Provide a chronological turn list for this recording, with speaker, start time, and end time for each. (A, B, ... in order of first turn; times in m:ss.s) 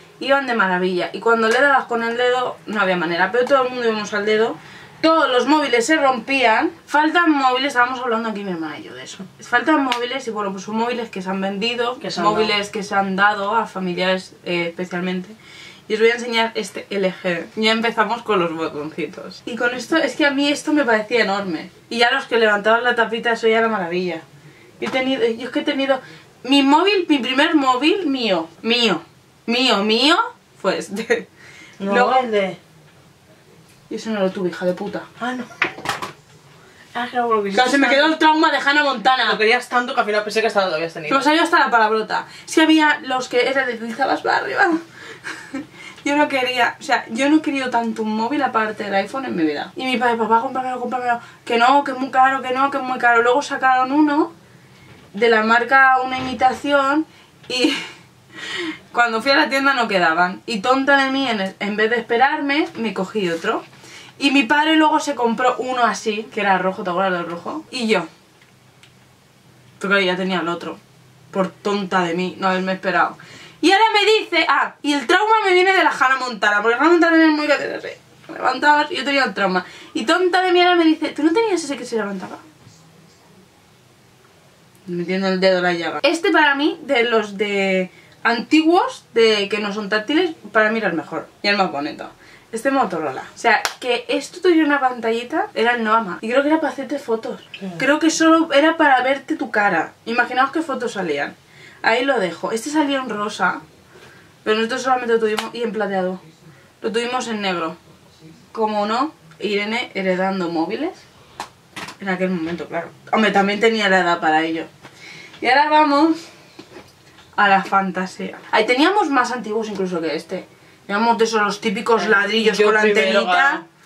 0:00.2-0:15.4 A
0:12.0-0:12.5 B
0:15.9-0:24.2 A
0:24.8-0:31.3 A
0:31.8-0:32.6 B
0:31.8-0:32.2 A
0:33.9-0:35.1 A
0:35.2-0:35.5 B
0:36.9-0:38.1 B
0:37.5-0:39.4 A
0:39.2-0:41.2 B
0:41.1-0:44.8 A
0:45.4-0:54.3 A
0:55.1-0:57.8 A
0:58.4-1:03.6 A
1:04.2-1:08.1 A
1:09.8-1:10.8 A
1:11.3-1:22.4 A
1:24.8-1:43.6 A
1:44.4-1:46.2 A
1:46.8-1:47.8 A
1:48.5-1:51.0 A
1:52.0-1:54.7 A
1:55.4-1:56.2 A
1:57.4-2:03.6 A
2:02.0-2:03.6 B